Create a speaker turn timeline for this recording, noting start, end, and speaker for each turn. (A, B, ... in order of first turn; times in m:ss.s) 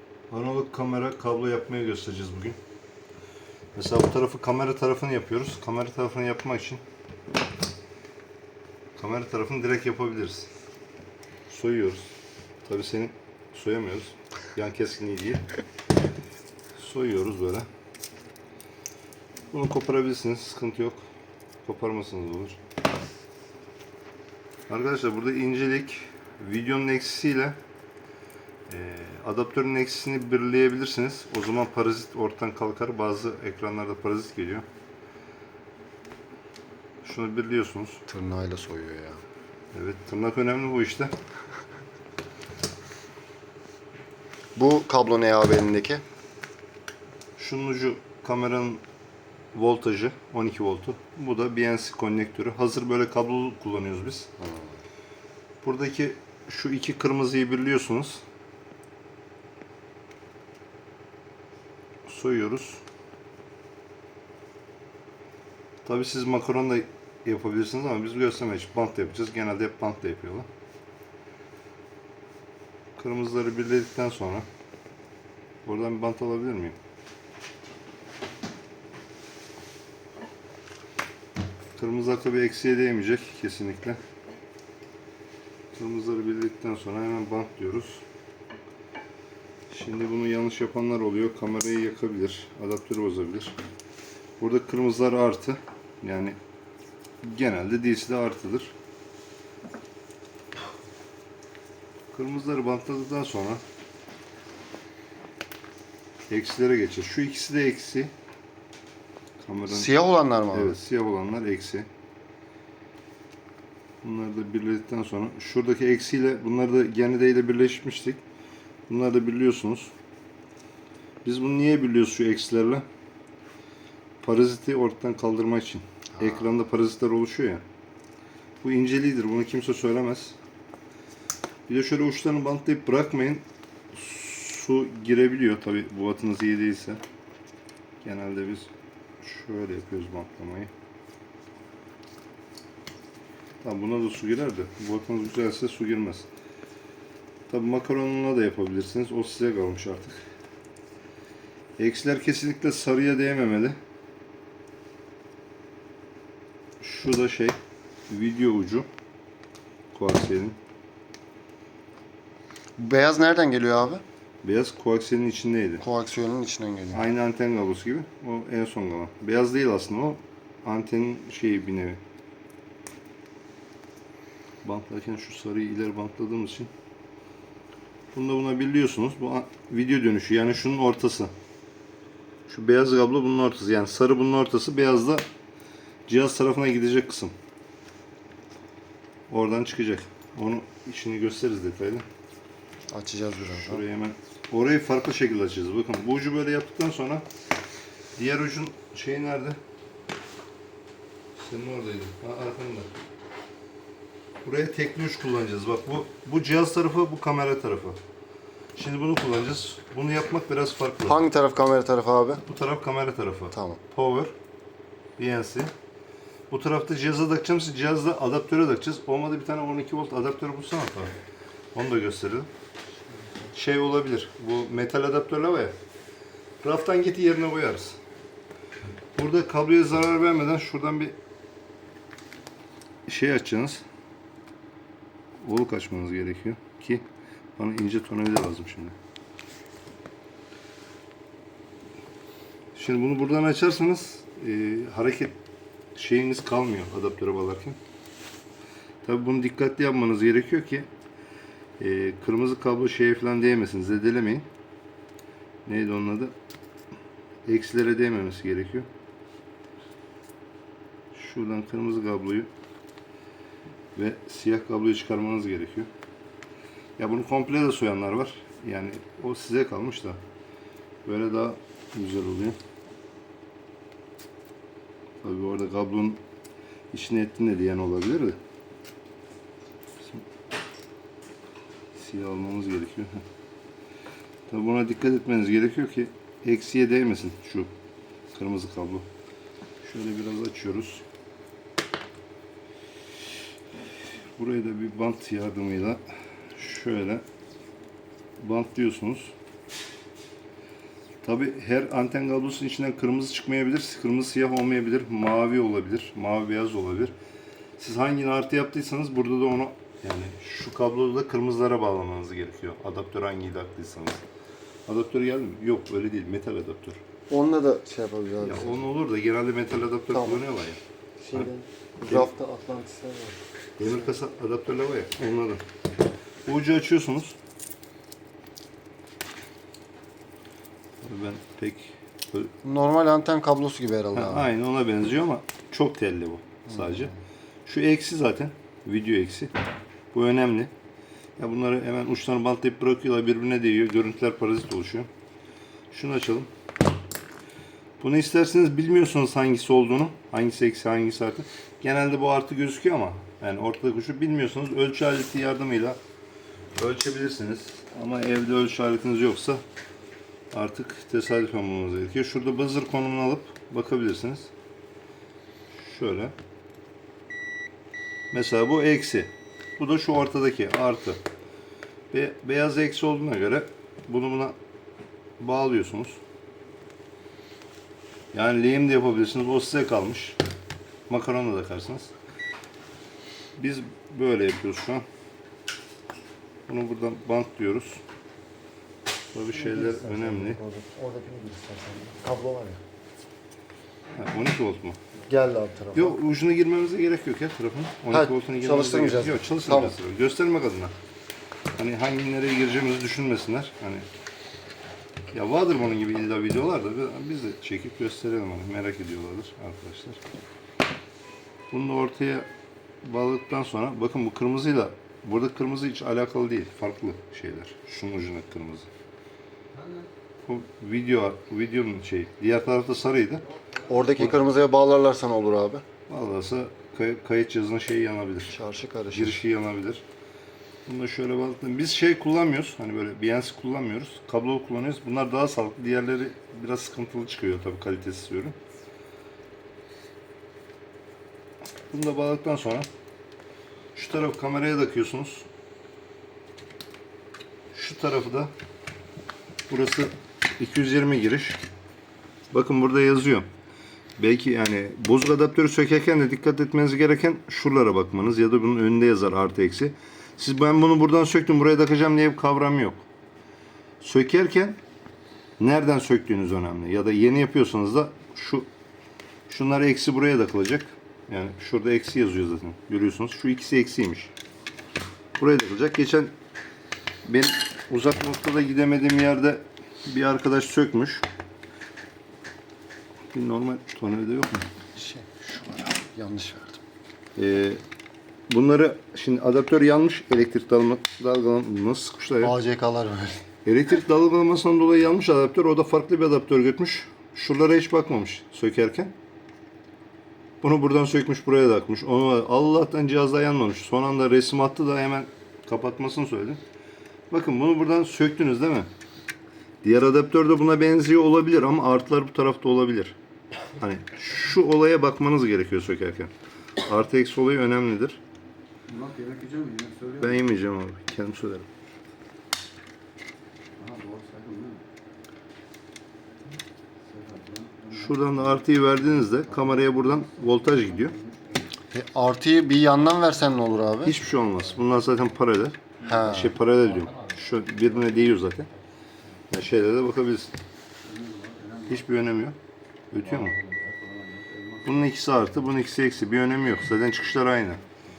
0:00.3-0:02.6 A
0:03.7-0:06.8 A
0:09.0-0:10.5 A
0:11.5-0:12.1 A
0:12.6-0:15.4 A
0:16.8-0:17.7 A
0:19.5-0:21.0 A
0:21.6-0:22.6 A
0:24.7-0:27.6 A
0:28.7-0:34.6 A
0:37.0-0:38.0 A
0:38.1-0:39.2 B
0:39.7-0:41.1 A
0:44.5-0:46.0 B
0:47.4-0:48.8 A
0:49.5-0:54.3 A
0:54.4-0:54.8 B
0:55.6-0:58.2 A
1:02.0-1:02.8 A
1:05.8-1:10.5 A
1:13.0-1:14.4 A
1:15.6-1:16.8 A
1:21.8-1:24.0 A
1:25.7-1:28.0 A
1:29.7-1:33.6 A
1:34.4-1:36.4 A
1:37.2-1:38.7 A
1:42.1-1:43.6 A
1:46.3-1:48.1 A
1:49.4-1:50.0 A
1:49.7-1:50.8 B
1:50.5-1:51.9 A
1:54.0-1:58.2 A
1:58.9-1:59.9 A
2:01.2-2:02.8 A
2:04.2-2:07.6 A
2:08.6-2:10.4 A
2:11.7-2:17.0 A
2:18.0-2:18.7 A
2:19.2-2:20.7 A
2:23.6-2:26.3 A
2:27.5-2:30.2 A
2:31.8-2:33.8 A
2:36.8-2:37.6 A
2:38.1-2:38.9 A
2:39.9-2:40.6 A
2:42.8-2:44.0 B
2:44.4-2:45.8 A
2:45.8-2:47.0 B
2:46.9-2:52.0 A
2:54.6-2:56.7 A
2:58.1-3:01.3 A
3:02.5-3:05.2 A
3:06.0-3:07.3 A
3:09.3-3:12.0 A
3:12.9-3:13.8 B
3:13.4-3:17.2 A
3:18.2-3:19.6 A
3:21.4-3:22.9 A
3:24.4-3:28.0 A
3:28.7-3:31.2 A
3:31.0-3:32.4 B
3:32.4-3:34.3 A
3:33.5-3:33.8 B
3:35.2-3:35.7 A
3:36.5-3:41.1 A
3:41.7-3:42.5 A
3:43.5-3:45.7 A
3:46.6-3:48.0 A
3:49.2-3:51.2 A
3:53.1-3:53.8 A
3:55.4-3:57.0 A
3:57.6-3:59.0 A
4:02.7-4:05.4 A
4:05.9-4:07.8 A
4:09.0-4:10.9 A
4:11.8-4:14.4 A
4:15.6-4:16.3 A
4:17.5-4:18.9 A
4:21.1-4:22.5 A
4:23.9-4:25.9 A
4:27.0-4:30.2 A
4:31.0-4:32.6 A
4:35.2-4:36.2 A
4:36.9-4:38.4 A
4:42.0-4:43.2 A
4:44.5-4:47.7 A
4:48.3-4:49.0 A
4:49.8-4:51.0 A
4:54.4-4:56.0 A
4:56.5-4:57.2 A
4:58.4-4:59.3 A
5:01.2-5:07.1 A
5:07.8-5:14.2 A
5:14.9-5:17.0 A
5:17.3-5:18.8 B
5:18.4-5:20.8 A
5:20.1-5:20.4 B
5:21.2-5:23.4 B
5:23.8-5:25.6 A
5:26.4-5:27.4 A
5:31.0-5:32.5 A
5:32.6-5:34.5 B
5:34.1-5:37.1 A
5:37.6-5:39.5 A
5:40.1-5:40.7 A
5:41.4-5:45.1 A
5:45.9-5:46.5 A
5:48.0-5:56.0 A
5:56.7-5:59.6 A
6:00.5-6:04.5 A
6:05.7-6:06.3 A
6:08.3-6:11.2 A
6:12.1-6:14.6 A
6:15.4-6:16.2 A
6:18.3-6:20.4 A
6:21.1-6:22.1 A
6:23.6-6:25.0 A
6:26.7-6:28.0 A
6:29.3-6:30.6 A
6:29.5-6:32.8 B
6:34.1-6:35.0 A
6:35.3-6:36.2 B
6:35.9-6:40.9 A
6:38.1-6:39.9 B
6:41.8-6:44.0 A
6:45.3-6:50.2 A
6:51.7-6:52.5 A
6:53.0-6:58.9 A
7:00.4-7:03.4 A
7:03.8-7:05.8 B
7:06.1-7:08.5 A
7:08.5-7:09.4 B
7:09.1-7:10.0 A
7:10.8-7:18.6 A
7:21.9-7:22.9 A
7:23.9-7:25.5 A
7:27.7-7:28.5 A
7:29.7-7:31.6 A
7:32.5-7:33.5 A
7:34.2-7:43.0 A
7:44.0-7:44.8 A
7:45.6-7:48.7 A
7:49.5-7:54.3 A
7:55.4-7:56.3 A
7:57.2-8:01.2 A
8:03.3-8:04.7 A
8:04.9-8:06.8 B
8:07.4-8:07.8 A
8:08.5-8:12.5 A
8:12.4-8:13.4 B
8:13.6-8:19.1 A
8:20.6-8:26.6 A
8:27.3-8:28.9 A
8:29.8-8:33.2 A
8:33.8-8:38.2 A
8:38.9-8:40.3 C
8:40.2-8:41.7 A
8:43.8-8:44.8 C
8:47.1-8:48.6 C
8:47.9-8:51.2 A
8:49.3-8:51.6 C
8:51.9-8:54.2 B
8:54.0-8:58.7 A
8:56.0-8:56.6 B
8:59.5-9:00.5 A
9:01.0-9:02.0 C
9:01.9-9:02.6 A
9:03.1-9:03.6 A
9:03.2-9:04.8 C
9:04.8-9:07.8 A